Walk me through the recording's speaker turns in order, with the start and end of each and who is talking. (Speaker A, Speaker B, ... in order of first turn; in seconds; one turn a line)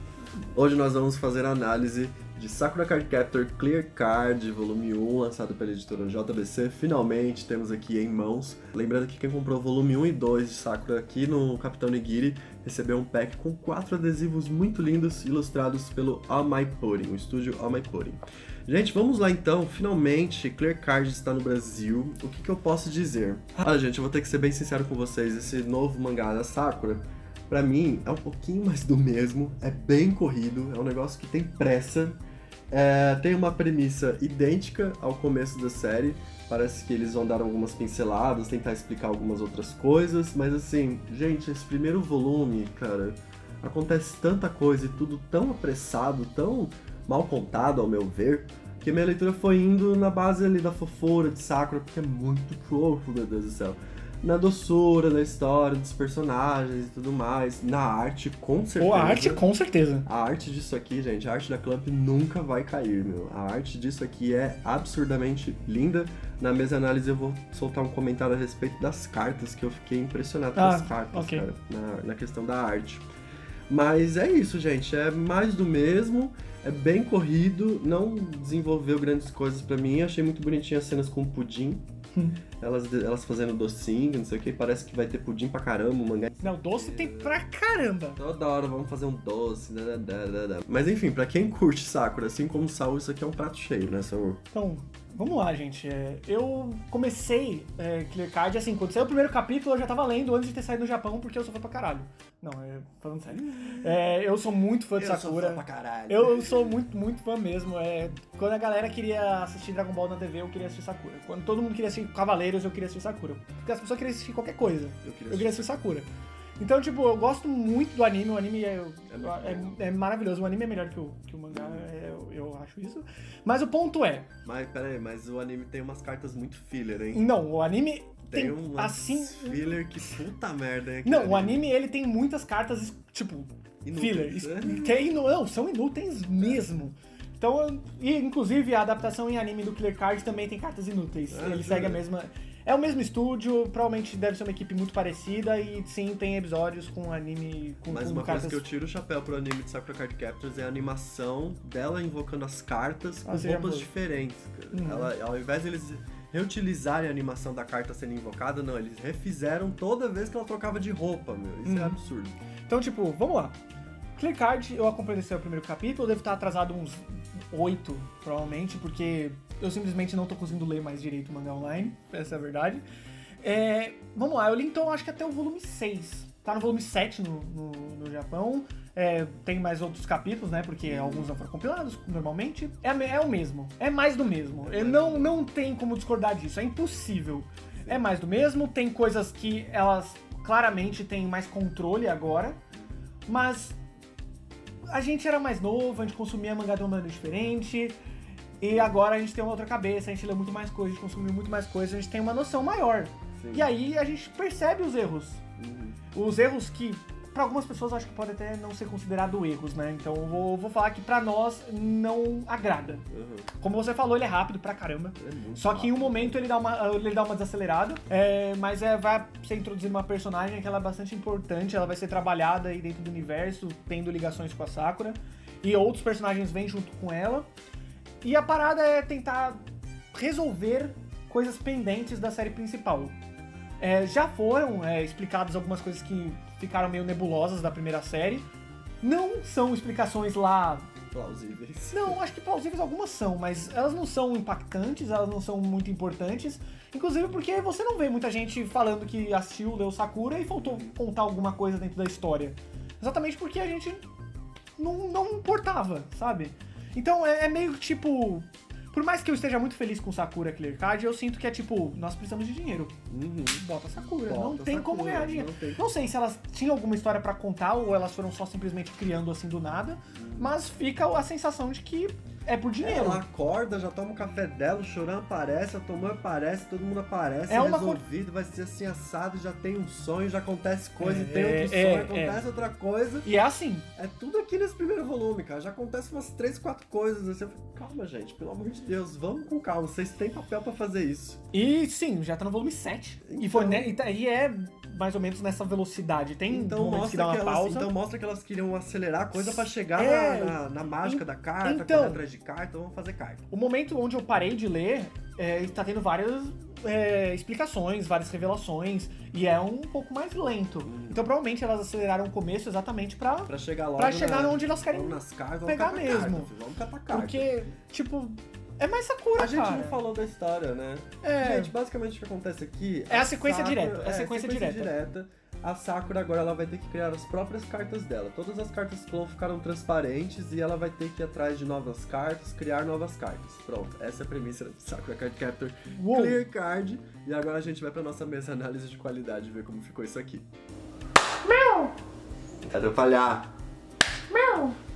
Speaker A: 0.6-32.2
Speaker A: 32.7-59.4
Speaker B: 58.8-60.1
Speaker A: 60.1-73.1
Speaker B: 70.5-71.5
Speaker A: 73.7-81.8
Speaker A: 82.6-87.4
Speaker B: 86.4-88.2
Speaker A: 88.2-94.4
Speaker B: 94.5-116.1
Speaker A: 105.0-106.8
Speaker A: 115.0-115.7
Speaker B: 116.6-124.3
Speaker A: 119.1-119.8
Speaker A: 121.5-121.9
Speaker A: 124.5-127.3
Speaker B: 127.1-129.7
Speaker A: 128.3-131.7
Speaker B: 131.0-148.7
Speaker A: 133.8-135.1
Speaker A: 141.3-142.0
Speaker A: 147.9-162.4
Speaker B: 153.2-153.9
Speaker B: 154.7-155.1
Speaker B: 161.7-162.0
Speaker B: 162.7-163.6
Speaker B: 164.2-172.8
Speaker B: 173.4-192.6
Speaker A: 180.9-181.3
Speaker A: 184.6-185.5
Speaker B: 193.3-193.8
Speaker B: 194.9-198.0
Speaker B: 198.6-205.4
Speaker A: 203.4-203.7
Speaker A: 205.6-206.0
Speaker B: 206.1-227.5
Speaker A: 213.1-213.5
Speaker A: 215.2-216.5
Speaker B: 228.2-229.6
Speaker B: 230.1-233.2
Speaker B: 233.8-238.5
Speaker B: 239.0-240.9
Speaker A: 241.1-242.2
Speaker B: 241.9-254.1
Speaker A: 250.6-251.0
Speaker B: 254.8-262.9
Speaker A: 263.1-263.6
Speaker B: 263.5-273.2
Speaker A: 264.3-265.8
Speaker A: 270.1-270.5
Speaker A: 272.8-283.3
Speaker B: 277.5-278.0
Speaker B: 281.0-282.4
Speaker B: 283.2-283.9
Speaker A: 284.0-291.4
Speaker B: 291.5-297.9
Speaker A: 293.2-293.9
Speaker A: 296.5-303.4
Speaker B: 299.3-302.2
Speaker B: 303.5-316.5
Speaker A: 310.9-311.2
Speaker A: 313.5-317.5
Speaker B: 317.1-320.0
Speaker A: 319.4-340.5
Speaker B: 321.2-321.7
Speaker B: 323.1-324.9
Speaker B: 335.9-336.4
Speaker B: 341.4-341.9
Speaker A: 342.7-343.5
Speaker B: 344.3-344.8